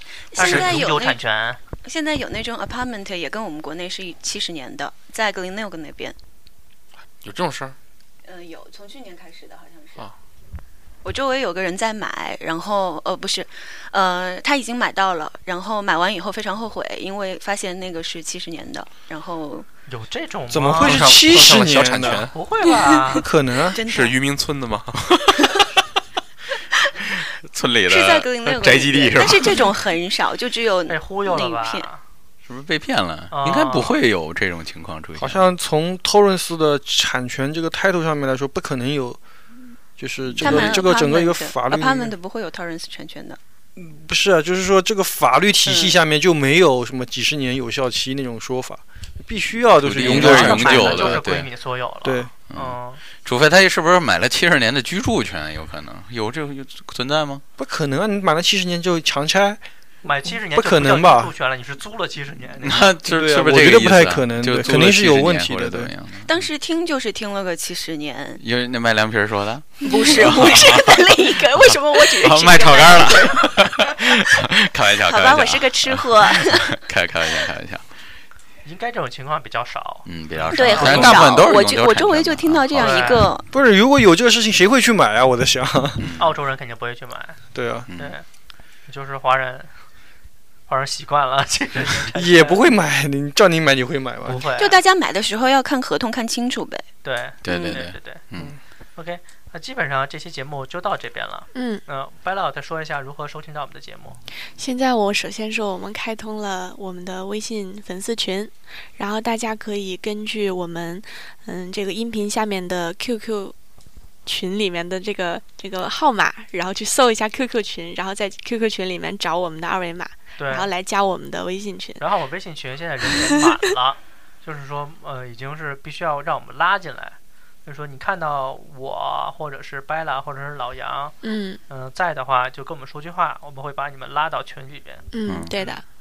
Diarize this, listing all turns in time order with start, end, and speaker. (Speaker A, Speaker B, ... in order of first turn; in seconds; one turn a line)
Speaker A: 0.3-1.2
Speaker B: 0.3-1.6
Speaker C: 0.4-0.7
Speaker A: 1.8-6.2
Speaker C: 7.2-7.8
Speaker A: 8.2-10.1
Speaker A: 11.0-19.7
Speaker B: 19.9-21.1
Speaker D: 20.5-22.3
Speaker C: 20.8-22.4
Speaker B: 22.3-23.3
Speaker D: 23.1-23.8
Speaker A: 23.6-24.2
Speaker C: 23.9-25.5
Speaker E: 27.5-29.7
Speaker A: 27.9-31.9
Speaker B: 30.9-32.0
Speaker E: 32.5-35.5
Speaker B: 33.3-34.0
Speaker D: 35.2-39.2
Speaker D: 40.0-42.1
Speaker E: 40.4-40.8
Speaker A: 40.4-43.4
Speaker D: 43.8-51.2
Speaker A: 45.6-46.0
Speaker E: 49.8-51.5
Speaker B: 50.0-53.0
Speaker D: 52.0-52.3
Speaker E: 52.5-57.4
Speaker D: 57.6-59.6
Speaker B: 60.0-63.0
Speaker D: 60.5-61.3
Speaker E: 62.6-66.3
Speaker D: 63.0-65.9
Speaker A: 66.2-68.4
Speaker E: 68.4-77.8
Speaker A: 69.8-73.9
Speaker A: 75.0-76.7
Speaker B: 78.7-81.2
Speaker E: 80.0-83.3
Speaker A: 80.5-83.5
Speaker B: 82.8-83.3
Speaker D: 83.5-86.0
Speaker E: 86.0-86.3
Speaker B: 86.2-87.4
Speaker D: 87.5-87.9
Speaker E: 87.9-88.2
Speaker B: 88.0-88.2
Speaker B: 88.9-89.7
Speaker B: 90.7-92.6
Speaker D: 92.1-94.5
Speaker B: 94.3-94.8
Speaker A: 94.6-96.9
Speaker B: 97.0-98.2
Speaker E: 97.4-98.6
Speaker A: 97.5-97.8
Speaker B: 99.0-104.2
Speaker F: 101.5-101.8
Speaker F: 104.6-113.5
Speaker F: 114.2-122.1
Speaker B: 120.4-120.7
Speaker B: 122.0-131.2
Speaker F: 123.1-123.4
Speaker F: 131.2-131.6
Speaker B: 131.7-135.1
Speaker F: 135.1-135.8
Speaker E: 135.3-135.6